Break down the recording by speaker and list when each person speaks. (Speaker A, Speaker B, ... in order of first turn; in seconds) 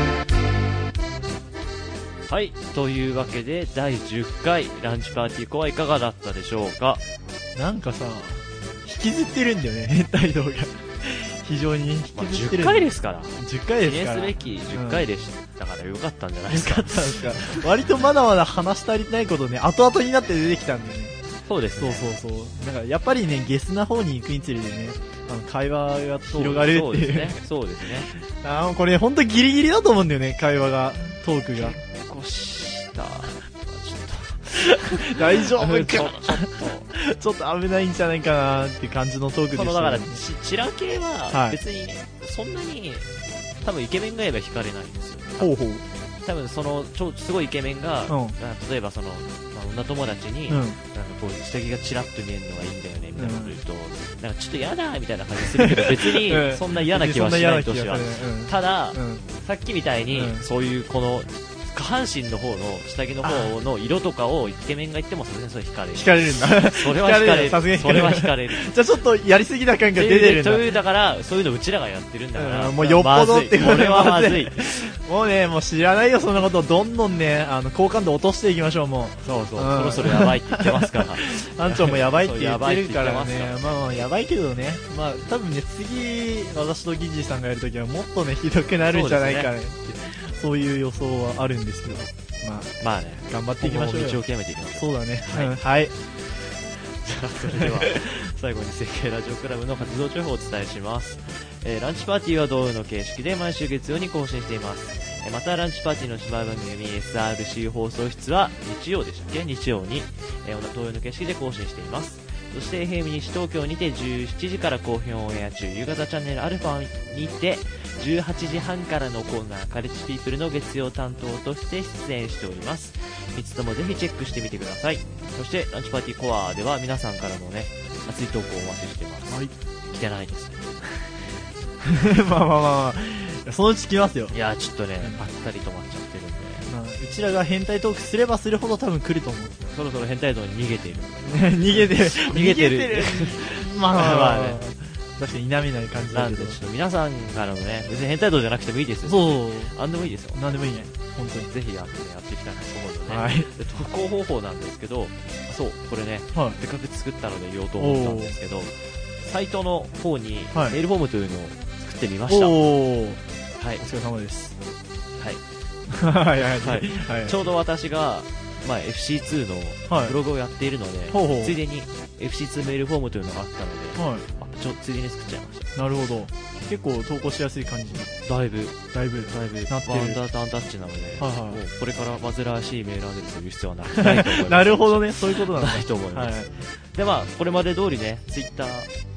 Speaker A: 2.3-7.0, 12.1-17.6, 21.5-22.1, 26.3-28.1, 31.5-36.9, 39.5-43.1, 43.6-45.6, 46.2-68.8, 70.0-74.8, 79.2-83.8, 88.9-89.5, 92.8-95.6, 96.9-131.1, 134.3-136.7, 139.7-144.6, 146.1-150.6, 151.5-162.7, 166.6-175.8, 178.2-188.9
Speaker B: 7.6-15.1, 16.5-21.1, 21.8-27.4, 28.1-31.8, 34.6-40.2, 41.3-41.6, 45.4-45.8, 48.1-48.4, 50.5-50.8, 53.1-53.6, 55.4-59.2, 60.1-60.4, 63.2-63.5, 65.9-70.7, 72.3-92.8, 93.3-96.0, 97.5-98.1, 129.3-129.5, 131.8-134.3, 136.7-139.6, 141.3-146.6, 149.1-149.8, 150.3-151.5, 153.1-153.5, 157.8-158.4, 160.5-160.8, 162.3-163.2, 163.8-164.6, 165.9-167.4, 169.9-170.2, 171.1-171.6, 174.0-174.2, 175.8-178.1, 178.9-180.2, 181.2-181.6, 184.0-186.5